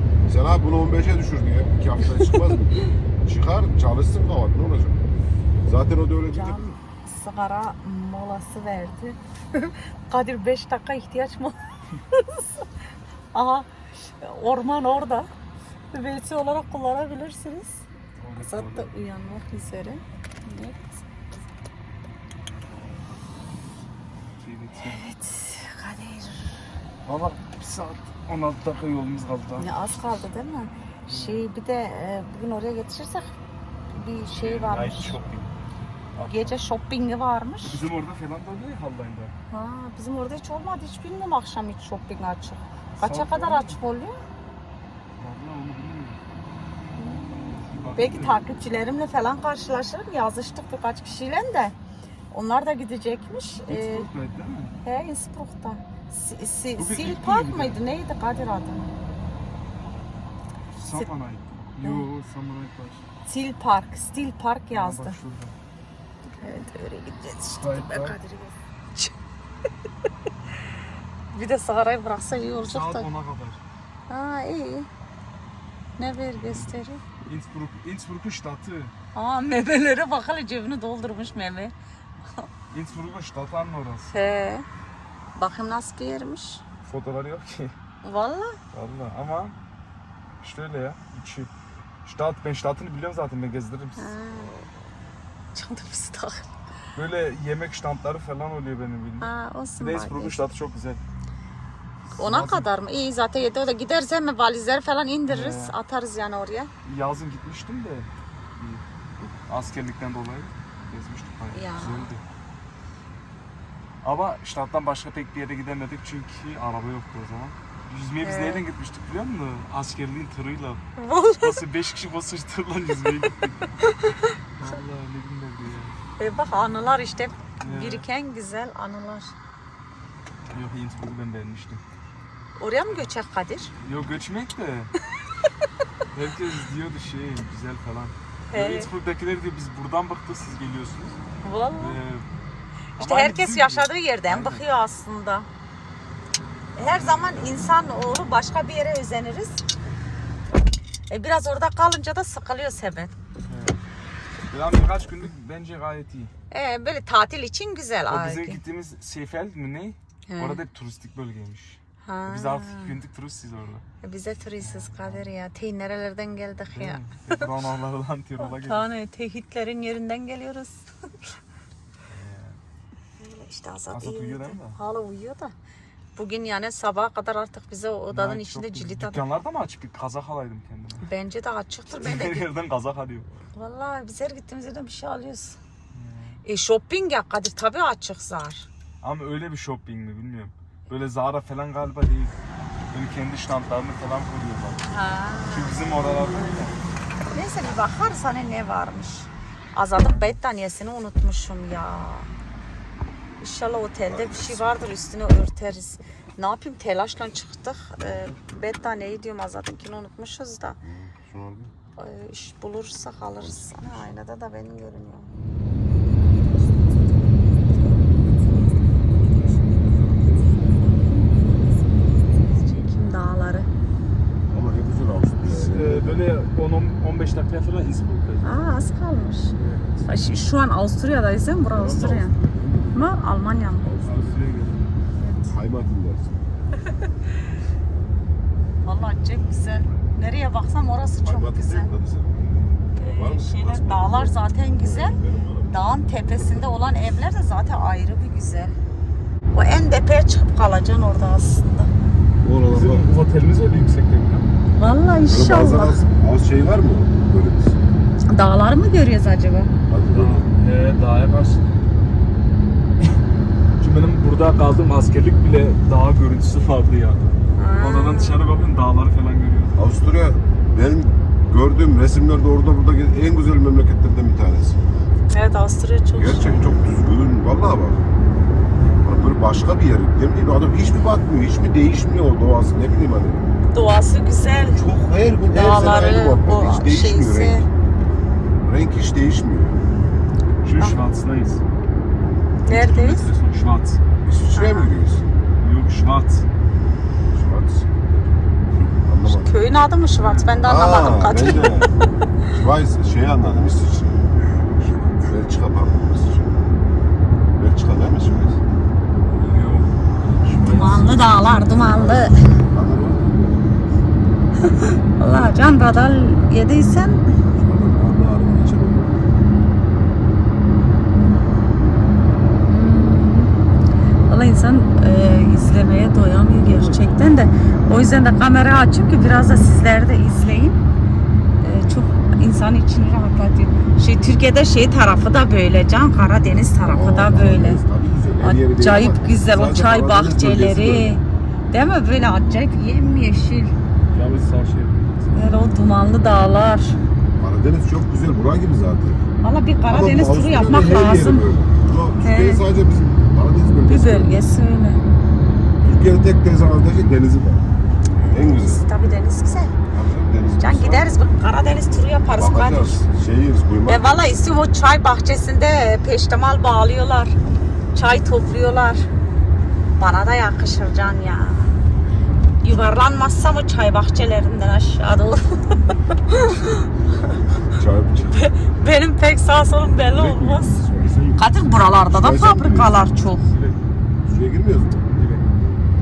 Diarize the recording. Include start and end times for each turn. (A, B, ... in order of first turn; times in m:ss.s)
0:00.3-0:05.0 A
0:05.6-0:06.6 A
0:06.3-0:11.6 B
0:12.1-0:12.4 B
0:13.3-0:13.7 B
0:14.2-0:15.3 B
0:15.9-0:17.8 B
0:18.2-0:18.9 C
0:18.4-0:20.9 B
0:24.4-0:25.0 C
0:24.8-0:26.6 B
0:27.0-0:29.7 C
0:29.6-0:33.4 B
0:31.1-0:31.4 C
0:33.9-0:35.2 B
0:34.4-0:35.5 C
0:36.2-0:36.6 C
0:36.3-0:37.8 B
0:37.7-0:39.3 C
0:39.5-0:44.2 B
0:43.0-0:43.8 C
0:45.2-0:46.2 C
0:47.0-0:51.7 B
0:47.4-0:48.4 C
0:52.3-0:54.1 B
0:53.7-0:54.8 C
0:54.8-0:58.9 B
0:56.8-0:57.8 C
1:00.8-1:03.0 C
1:01.8-1:02.1 B
1:03.2-1:05.2 B
1:04.7-1:05.6 C
1:06.2-1:09.1 B
1:07.6-1:08.2 C
1:11.3-1:13.1 B
1:12.7-1:13.6 C
1:14.1-1:14.9 B
1:16.0-1:17.0 B
1:17.3-1:18.9 C
1:19.1-1:21.7 B
1:22.7-1:24.1 C
1:24.1-1:24.7 B
1:25.4-1:26.6 B
1:26.8-1:27.8 C
1:28.0-1:28.6 B
1:28.7-1:29.6 C
1:30.4-1:31.5 C
1:32.0-1:34.2 C
1:34.0-1:34.7 B
1:35.5-1:36.5 B
1:37.0-1:41.0 C
1:39.2-1:40.4 B
1:42.1-1:42.7 C
1:42.2-1:46.7 B
1:45.3-1:45.8 C
1:46.8-1:48.8 C
1:49.5-1:52.2 C
1:51.5-1:52.1 B
1:54.0-2:00.8 C
1:58.2-1:58.6 B
2:01.0-2:01.6 B
2:01.4-2:03.7 C
2:03.8-2:04.3 B
2:04.6-2:06.0 C
2:06.2-2:09.4 B
2:07.6-2:08.0 C
2:10.5-2:11.8 C
2:12.6-2:13.7 B
2:13.8-2:14.9 C
2:16.1-2:21.2 C
2:18.5-2:18.9 B
2:21.4-2:22.0 B
2:21.8-2:22.3 C
2:23.0-2:24.6 C
2:23.0-2:25.5 B
2:26.8-2:27.6 C
2:26.8-2:29.6 B
2:31.1-2:33.2 B
2:33.5-2:33.8 C
2:34.5-2:36.3 C
2:36.5-2:38.6 B
2:38.1-2:43.8 C
2:40.3-2:40.6 B
2:42.0-2:43.0 B
2:44.0-2:47.5 B
2:44.6-2:45.3 C
2:46.7-2:48.9 C
2:48.4-2:50.8 B
2:52.1-2:52.6 C
2:53.2-2:55.5 B
2:53.9-2:54.8 C
2:56.2-2:59.2 B
2:58.1-3:01.1 C
3:01.1-3:02.4 B
3:02.0-3:03.3 C
3:03.5-3:05.6 B
3:05.9-3:06.4 C
3:06.5-3:08.7 B
3:09.0-3:12.4 C
3:12.9-3:14.8 C
3:14.9-3:16.6 B
3:15.5-3:16.8 C
3:17.3-3:22.3 B
3:20.0-3:20.4 C
3:23.4-3:30.8 B
3:24.1-3:24.8 A
3:30.8-3:31.7 A
3:32.0-3:35.3 B
3:33.4-3:34.1 A
3:42.4-3:43.7 B
3:44.5-3:46.3 A
3:45.4-3:48.7 C
3:48.4-3:49.5 B
3:49.6-3:50.2 C
3:50.1-3:52.4 B
3:51.7-3:53.0 A
3:52.9-3:53.9 B
3:53.8-3:54.5 A
3:54.0-3:54.9 C
3:55.2-3:55.6 B
3:55.5-3:56.4 A
3:58.8-4:01.9 B
4:01.2-4:05.8 A
4:03.0-4:08.8 B
4:09.5-4:11.9 B
4:12.4-4:13.1 A
4:12.7-4:14.5 C
4:14.8-4:16.0 B
4:15.2-4:17.9 A
4:18.3-4:19.7 B
4:19.9-4:20.5 A
4:20.1-4:21.8 C
4:23.8-4:29.9 C
4:27.6-4:28.4 B
4:29.8-4:34.8 A
4:35.3-4:36.7 B
4:36.2-4:38.0 A
4:39.0-4:43.5 A
4:43.7-4:44.8 B
4:44.7-4:47.7 A
4:45.5-4:47.7 B
4:48.6-4:49.8 A
4:50.6-4:51.6 C
4:52.6-4:53.3 B
4:52.6-4:54.0 C
4:54.2-4:55.3 A
4:54.5-4:54.9 B
4:55.6-4:56.5 C
4:57.3-4:59.6 A
4:59.2-5:01.9 B
5:00.2-5:00.5 C
5:00.6-5:01.9 A
5:02.5-5:04.3 A
5:04.8-5:05.3 B
5:05.2-5:06.7 A
5:07.6-5:08.6 A
5:09.3-5:11.2 C
5:10.6-5:12.5 B
5:11.7-5:13.8 A
5:14.7-5:17.2 B
5:17.4-5:19.3 A
5:22.6-5:23.5 B
5:24.3-5:30.8 B
5:26.6-5:27.5 A
5:31.6-5:37.8 B
5:36.8-5:41.2 A
5:38.4-5:43.8 B
5:44.1-5:45.3 C
5:45.3-5:47.0 B
5:47.4-5:49.2 A
5:49.4-5:51.5 B
5:49.9-5:54.4 A
5:52.2-5:52.6 B
5:53.9-5:55.0 B
5:55.8-5:57.6 A
5:58.2-5:58.8 A
5:58.3-5:59.8 B
5:59.9-6:01.3 A
6:00.6-6:03.0 B
6:02.3-6:04.3 A
6:03.9-6:07.4 B
6:08.0-6:09.1 B
6:10.0-6:11.8 B
6:12.6-6:16.9 B
6:17.7-6:18.5 A
6:18.3-6:20.8 B
6:20.1-6:21.4 A
6:21.4-6:23.4 B
6:22.1-6:23.1 A
6:23.4-6:23.9 C
6:24.2-6:25.1 A
6:25.1-6:25.5 C